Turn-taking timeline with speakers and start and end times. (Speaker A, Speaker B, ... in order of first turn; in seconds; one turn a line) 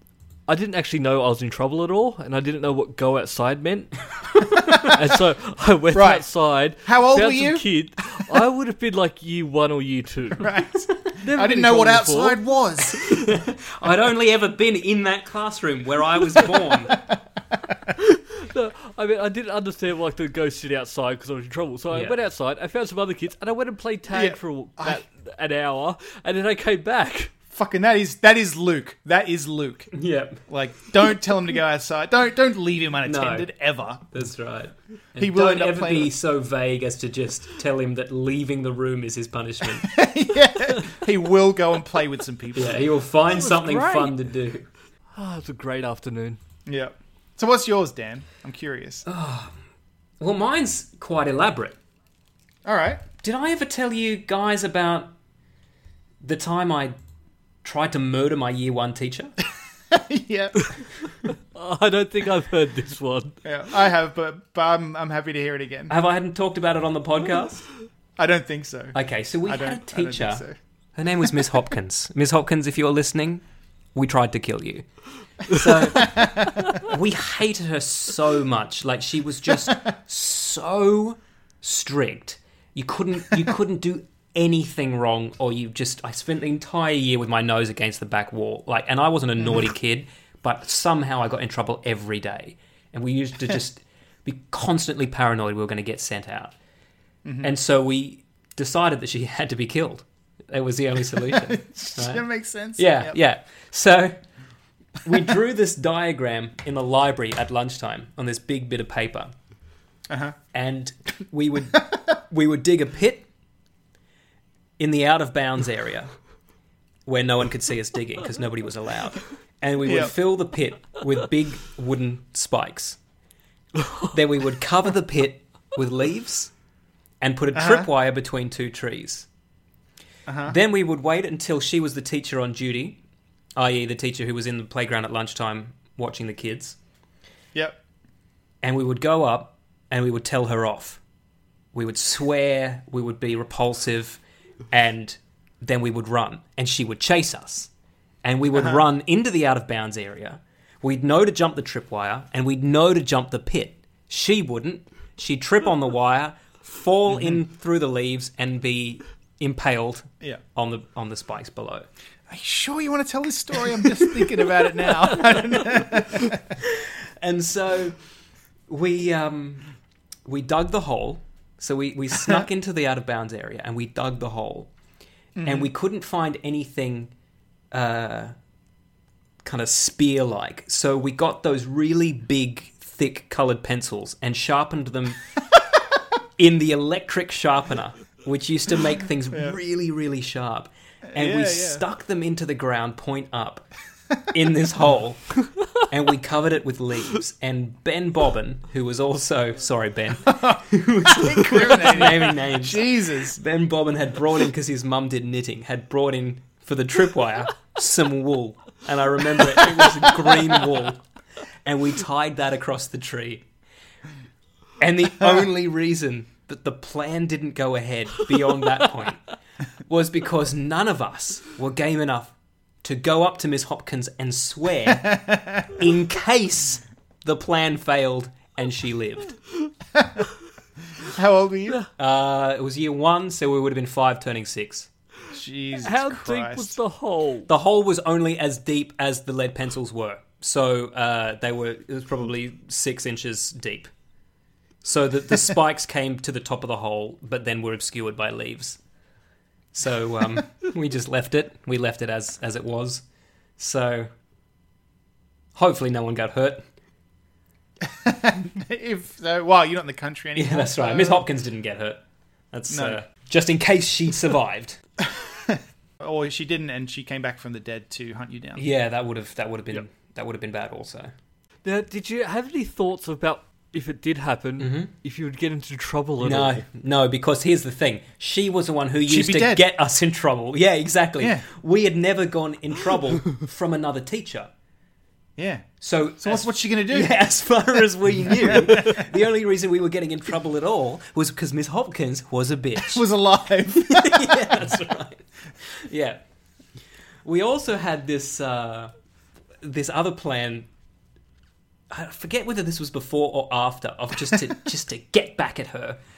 Speaker A: 0.5-10.5
Speaker B: 5.9-6.3
Speaker B: 6.8-7.8
Speaker B: 10.3-13.0
Speaker A: 11.2-12.4
Speaker C: 13.0-16.9
Speaker A: 18.1-27.3
Speaker B: 24.1-25.0
Speaker B: 27.5-34.0
Speaker C: 29.9-30.4
Speaker C: 33.0-33.5
Speaker C: 34.1-39.9
Speaker B: 35.2-36.1
Speaker B: 39.8-42.8
Speaker C: 42.5-44.7
Speaker A: 43.3-44.2
Speaker A: 45.1-46.4
Speaker B: 46.7-49.0
Speaker C: 49.0-49.6
Speaker C: 50.2-51.8
Speaker B: 52.6-53.0
Speaker C: 53.2-55.1
Speaker C: 56.2-57.0
Speaker C: 57.6-59.3
Speaker B: 59.9-60.7
Speaker A: 61.5-63.4
Speaker B: 63.4-65.9
Speaker C: 65.9-67.7
Speaker B: 68.2-70.6
Speaker C: 68.9-73.4
Speaker C: 73.9-96.5
Speaker B: 76.0-76.5
Speaker B: 97.2-97.5
Speaker C: 97.4-104.2
Speaker B: 101.1-103.2
Speaker C: 105.0-109.3
Speaker B: 110.1-110.3
Speaker C: 110.5-113.3
Speaker C: 114.8-116.1
Speaker C: 117.0-123.0
Speaker B: 119.8-120.1
Speaker C: 124.1-126.5
Speaker C: 127.2-129.3
Speaker B: 127.5-127.9
Speaker B: 130.2-130.6
Speaker C: 130.4-133.0
Speaker C: 133.6-136.8
Speaker B: 137.5-137.8
Speaker C: 138.6-141.0
Speaker C: 141.7-144.2
Speaker C: 144.7-147.7
Speaker C: 148.2-161.9
Speaker B: 148.5-148.8
Speaker B: 157.1-157.4
Speaker B: 162.3-166.4
Speaker C: 167.2-168.0
Speaker C: 168.7-169.7
Speaker C: 170.2-174.7
Speaker B: 175.3-175.7
Speaker C: 175.4-177.1
Speaker C: 177.7-178.3
Speaker C: 179.4-185.2
Speaker C: 186.4-193.7
Speaker B: 189.3-189.6
Speaker B: 191.1-191.8
Speaker C: 194.3-211.0
Speaker B: 200.3-203.4
Speaker C: 211.6-213.4
Speaker C: 214.8-219.2
Speaker C: 219.9-225.2
Speaker B: 224.9-225.7
Speaker C: 225.7-229.4
Speaker B: 231.0-231.8
Speaker C: 232.0-234.9
Speaker B: 235.3-236.8
Speaker A: 235.8-237.5
Speaker C: 237.5-243.9
Speaker C: 244.8-248.8
Speaker C: 249.7-253.0
Speaker C: 253.6-254.1
Speaker C: 255.5-256.6
Speaker B: 257.8-261.2
Speaker C: 260.3-264.8
Speaker B: 262.7-263.0
Speaker B: 265.1-268.6
Speaker C: 268.6-271.1
Speaker A: 271.6-276.6
Speaker C: 274.6-274.9
Speaker C: 276.2-284.5
Speaker B: 279.1-279.6
Speaker B: 281.2-281.5
Speaker B: 285.4-287.1
Speaker C: 285.8-293.0
Speaker B: 288.2-289.0
Speaker B: 292.8-294.6
Speaker C: 293.7-296.2
Speaker C: 297.2-298.9
Speaker C: 299.6-300.7
Speaker C: 301.9-306.0